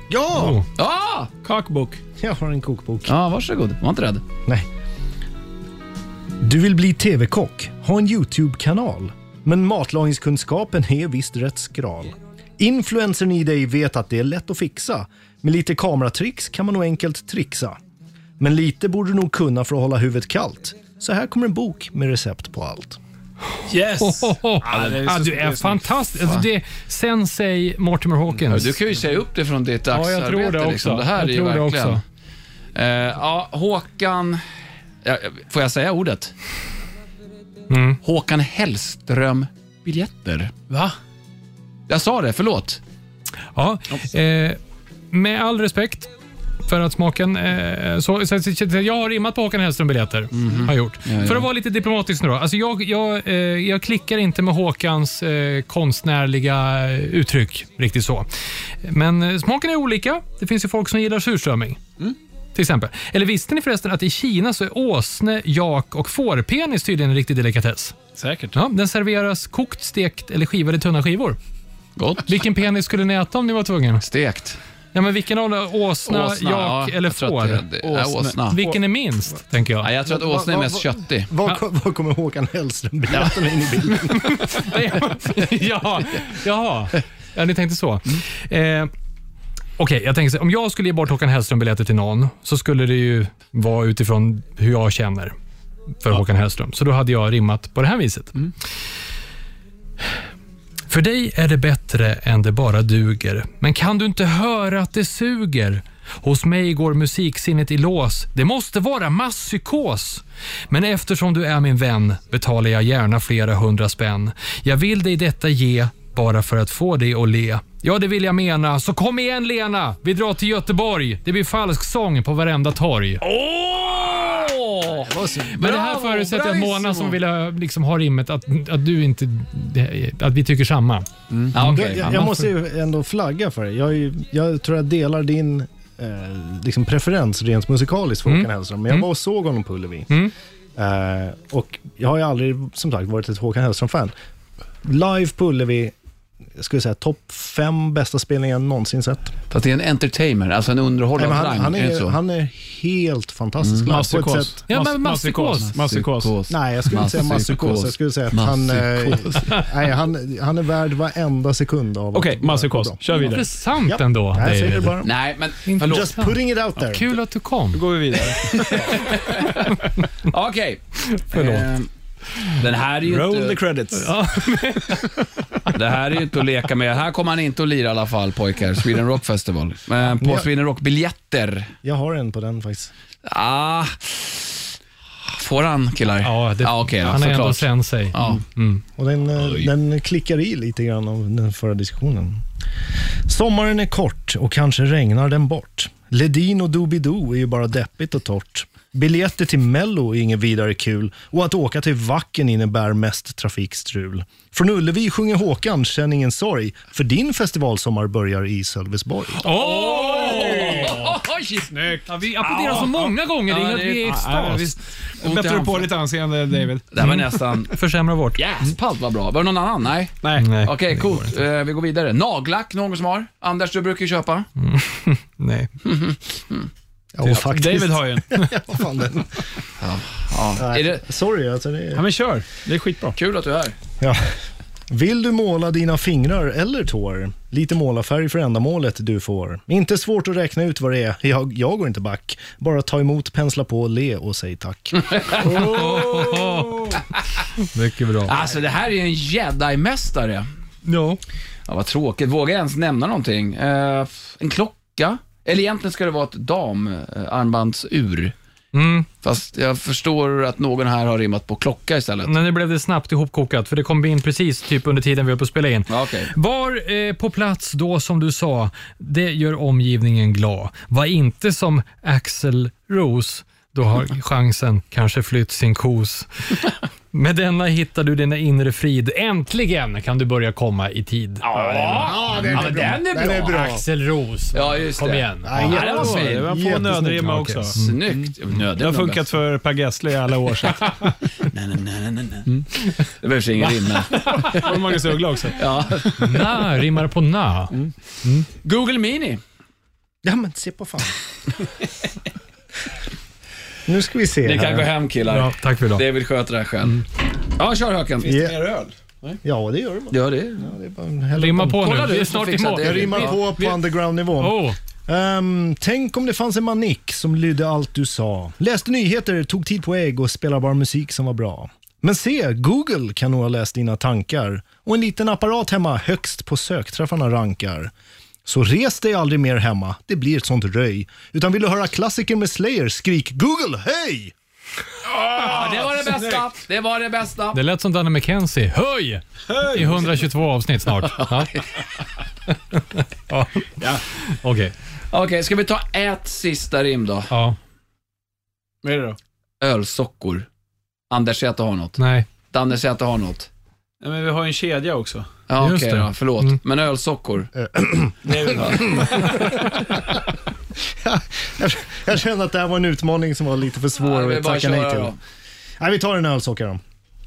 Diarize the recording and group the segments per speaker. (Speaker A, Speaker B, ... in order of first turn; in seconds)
Speaker A: 0.1-0.6, 2.2-3.1, 6.4-17.8, 18.4-23.0, 80.0-84.5, 125.0-125.6, 131.6-140.1, 140.8-144.1, 144.8-145.9, 146.6-149.3, 151.1-154.6, 156.5-165.1, 165.8-167.1, 180.0-180.5, 181.8-182.9, 189.0-192.4, 193.2-209.4, 227.1-229.4, 230.6-232.1, 234.0-234.3, 234.9-245.7, 281.8-283.7, 285.4-287.2, 300.2-301.1, 303.9-304.9, 308.2-308.6, 309.4-312.1, 312.8-327.9, 328.4-334.3, 357.6-360.1, 360.8-365.1, 365.8-366.8
Speaker B: 0.3-0.7, 24.0-28.8, 29.9-32.0, 37.7-38.0, 43.5-44.6, 45.1-46.1, 46.6-58.3, 58.8-61.8, 62.5-68.0, 68.5-71.4, 72.3-74.0, 74.9-77.6, 78.5-79.9, 84.0-88.9, 89.8-95.3, 96.0-98.4, 100.9-123.2, 125.5-132.5, 138.2-139.1, 154.7-155.8, 163.1-165.0, 165.6-167.8, 171.0-171.7, 173.9-175.1, 186.2-188.8, 209.4-211.0, 212.1-214.8, 217.0-218.4, 220.4-221.3, 224.6-225.7, 245.4-247.0, 247.7-248.3, 250.8-251.2, 258.7-259.1, 262.2-276.3, 277.1-282.8, 283.4-286.1, 286.6-288.0, 294.2-294.6, 296.2-298.5, 305.3-306.0, 311.4-313.8, 314.4-314.7, 337.5-341.6, 342.7-344.7, 347.3-347.6, 352.0-352.3, 355.6-356.6
Speaker C: 0.8-1.3, 3.0-4.2, 24.7-25.0, 28.5-32.0, 32.7-34.4, 35.0-36.3, 38.0-40.5, 41.9-42.8, 50.3-51.5, 72.0-72.3, 74.0-74.6, 76.1-78.6, 79.8-81.3, 123.2-127.2, 131.5-132.3, 149.5-152.2, 153.6-153.9, 155.8-159.5, 165.0-166.1, 168.3-171.9, 172.4-173.6, 175.7-181.7, 183.2-184.6, 185.3-188.4, 189.4-189.7, 209.4-214.2, 215.2-215.9, 216.9-217.7, 218.3-224.5, 225.8-226.7, 229.8-231.0, 233.1-233.8, 244.9-246.3, 248.2-250.4, 251.7-258.3, 259.2-262.3, 265.9-266.3, 281.4-283.8, 284.5-286.6, 287.8-289.3, 291.4-294.8, 295.5-296.2, 298.6-299.4, 304.4-308.3, 310.1-310.7, 311.7-313.4, 335.3-337.6, 341.1-341.6, 345.1-347.3, 349.6-350.5, 351.1-352.0, 352.5-353.5, 355.5-357.5, 364.0-365.2
Speaker D: 1.4-2.0, 23.7-25.9, 40.7-41.0, 68.2-68.6, 77.8-78.8, 153.9-156.3, 162.1-163.4, 167.7-169.1, 173.0-174.1, 209.8-211.1, 211.7-212.1, 214.0-216.8, 220.2-220.5, 227.2-228.4, 231.9-233.2, 245.4-246.9, 285.7-291.1, 294.2-296.6, 308.2-309.4, 335.1-336.4, 339.5-340.1, 348.8-349.2, 354.0-355.3, 358.2-359.4